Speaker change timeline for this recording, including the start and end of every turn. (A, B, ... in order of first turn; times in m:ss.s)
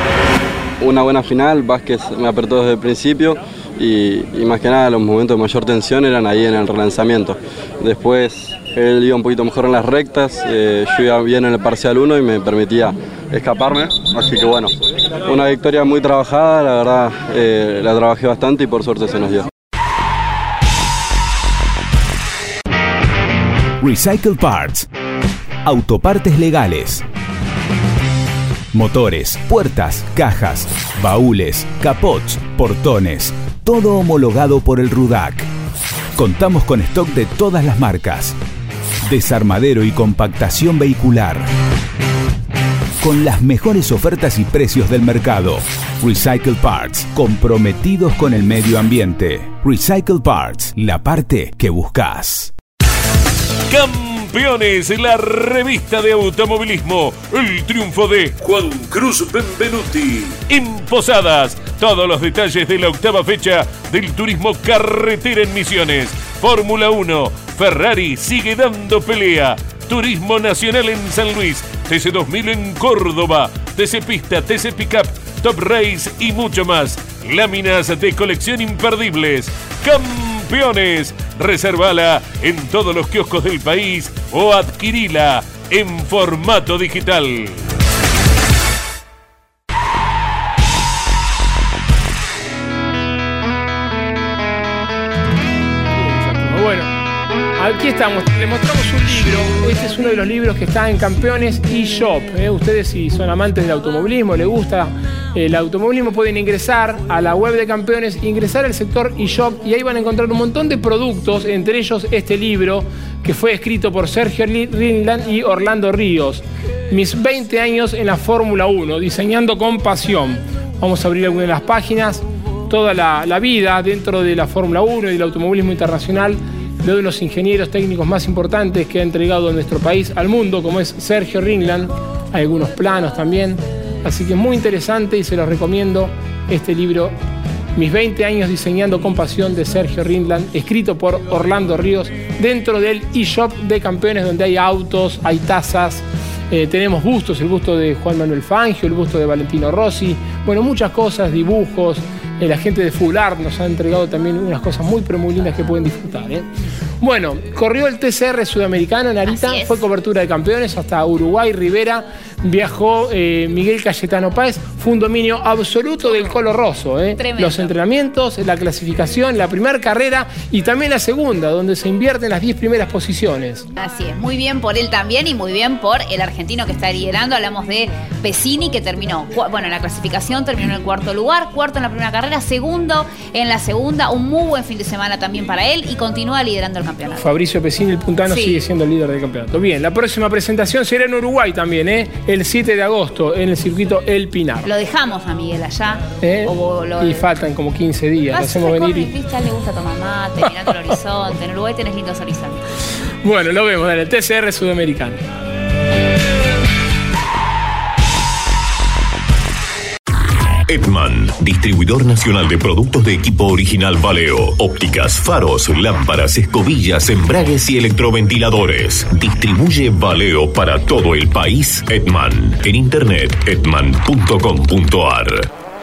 0:00.8-0:19.5 A
0:23.8-0:24.9 B
0:25.6-0:27.0 B
0:28.7-0:35.5 B
0:36.2-0:38.4 B
0:39.0-0:41.5 B
0:43.0-0:52.5 B
0:53.7-1:27.6 C
1:35.9-1:36.9 D
1:37.6-2:17.1 D
2:17.8-2:36.5 D
2:37.0-2:53.7 D
2:39.2-2:39.9 E
2:47.2-2:47.8 E
2:53.8-3:07.2 E
3:07.2-3:14.7 D
3:08.3-3:08.6 E
3:14.6-3:17.3 E
3:16.2-3:19.1 D
3:18.3-3:22.6 E
3:23.2-3:25.2 D
3:30.7-3:45.5 F